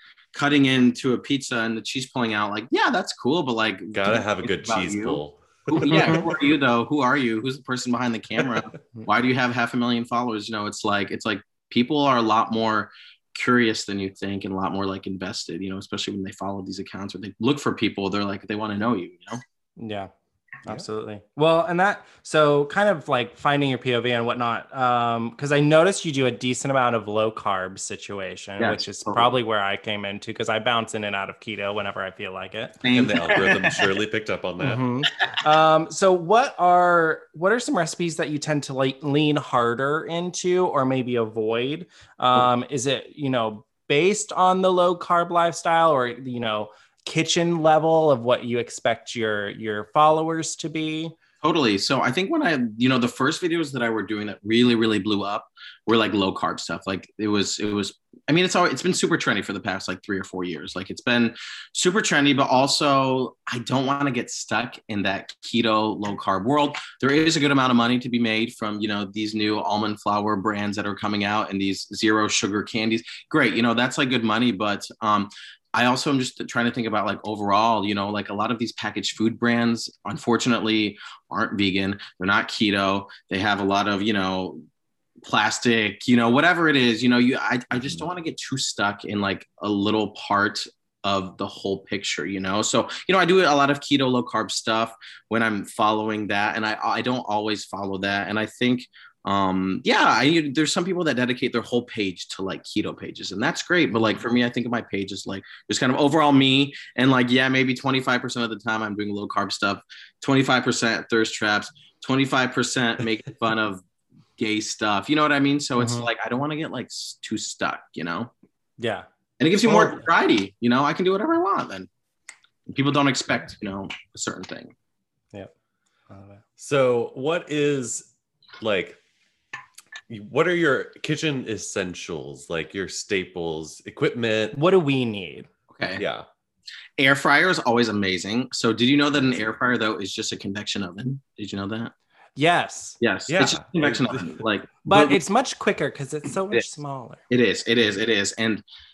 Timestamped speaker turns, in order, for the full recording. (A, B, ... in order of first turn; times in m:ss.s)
0:00.3-0:19.4 A
0:03.9-0:06.4 B
0:05.9-0:06.3 C
0:19.8-0:20.1 C
0:20.6-0:32.8 C
0:28.6-0:29.4 A
0:32.8-0:33.9 A
0:32.9-0:34.8 B
0:34.6-0:51.2 C
0:51.4-1:24.6 A
1:25.2-1:53.8 A
1:54.4-1:58.3 A
1:55.8-1:56.1 C
1:58.8-1:59.1 C
1:59.4-2:01.9 A
1:59.6-2:00.1 C
2:02.7-2:04.7 A
2:06.1-2:06.4 C
2:06.6-2:09.0 B
2:10.1-2:14.6 B
2:14.5-2:15.5 C
2:15.7-2:16.0 A
2:16.0-2:16.3 B
2:17.0-2:21.9 A
2:22.4-2:23.0 C
2:23.0-2:25.2 A
2:23.3-2:24.4 B
2:24.8-2:27.2 C
2:27.3-2:28.6 A